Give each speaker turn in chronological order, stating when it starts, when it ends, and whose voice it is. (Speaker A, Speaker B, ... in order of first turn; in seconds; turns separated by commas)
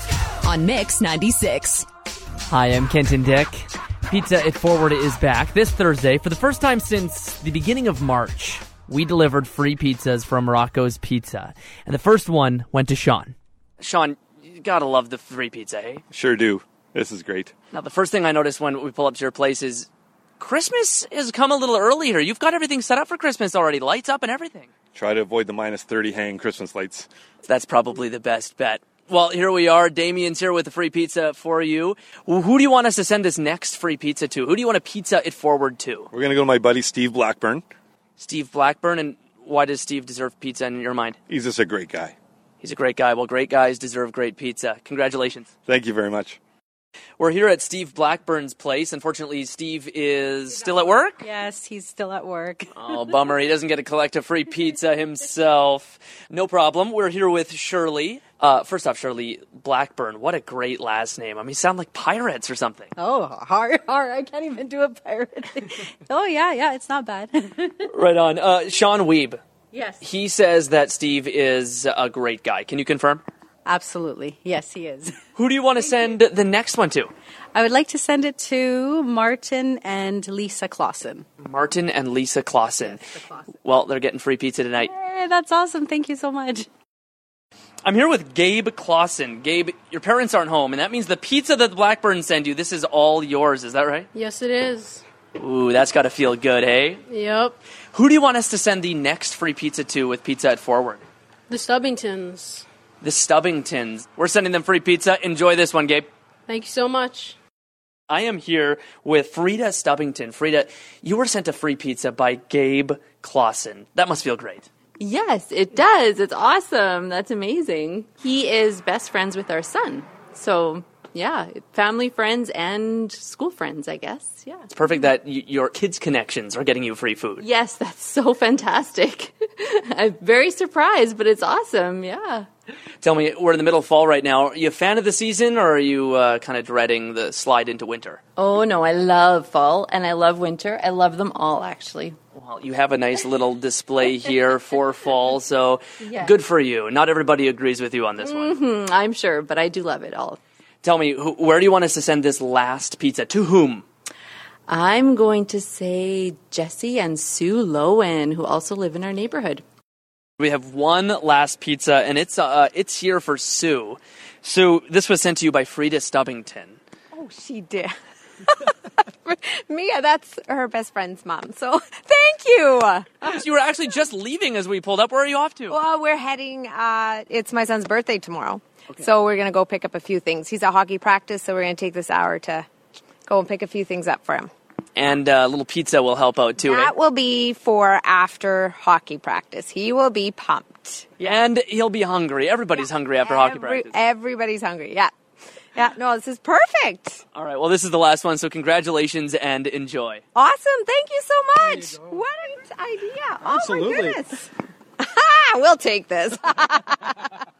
Speaker A: 0.5-1.9, Speaker B: 2.5-16.0, Speaker C: 16.1-17.5, Speaker B: 17.7-24.7, Speaker C: 24.9-27.1, Speaker B: 27.4-36.1, Speaker C: 36.1-37.6, Speaker B: 38.2-41.2, Speaker C: 41.3-42.1, Speaker B: 42.6-45.5, Speaker C: 45.6-46.4, Speaker B: 47.2-51.2, Speaker A: 51.2-53.1, Speaker B: 52.7-62.9, Speaker A: 63.0-67.9, Speaker B: 67.9-69.4, Speaker B: 70.0-73.2, Speaker A: 73.7-75.1, Speaker B: 75.3-77.1, Speaker A: 77.5-81.2, Speaker B: 81.4-83.1, Speaker B: 83.6-84.9, Speaker A: 84.8-86.7, Speaker B: 87.8-94.1, Speaker D: 94.1-95.0, Speaker B: 95.4-97.0, Speaker D: 97.1-97.6, Speaker B: 97.9-101.0, Speaker D: 101.5-102.7, Speaker B: 103.0-106.1, Speaker D: 106.5-107.3, Speaker B: 108.1-114.7, Speaker E: 115.0-124.7, Speaker B: 124.7-127.4, Speaker E: 127.4-132.5, Speaker B: 133.0-138.2, Speaker E: 138.4-142.2, Speaker B: 142.3-148.6, Speaker E: 146.0-146.3, Speaker E: 148.2-150.4, Speaker B: 150.8-153.8, Speaker E: 154.7-159.6, Speaker B: 160.4-166.8, Speaker F: 167.1-167.9, Speaker F: 168.5-173.3, Speaker B: 173.2-175.8, Speaker F: 175.7-182.7, Speaker F: 183.2-184.5, Speaker B: 184.9-186.9, Speaker F: 186.6-191.1, Speaker B: 191.2-194.0, Speaker F: 193.2-195.1, Speaker F: 195.7-197.2, Speaker B: 197.3-200.2, Speaker F: 200.3-207.3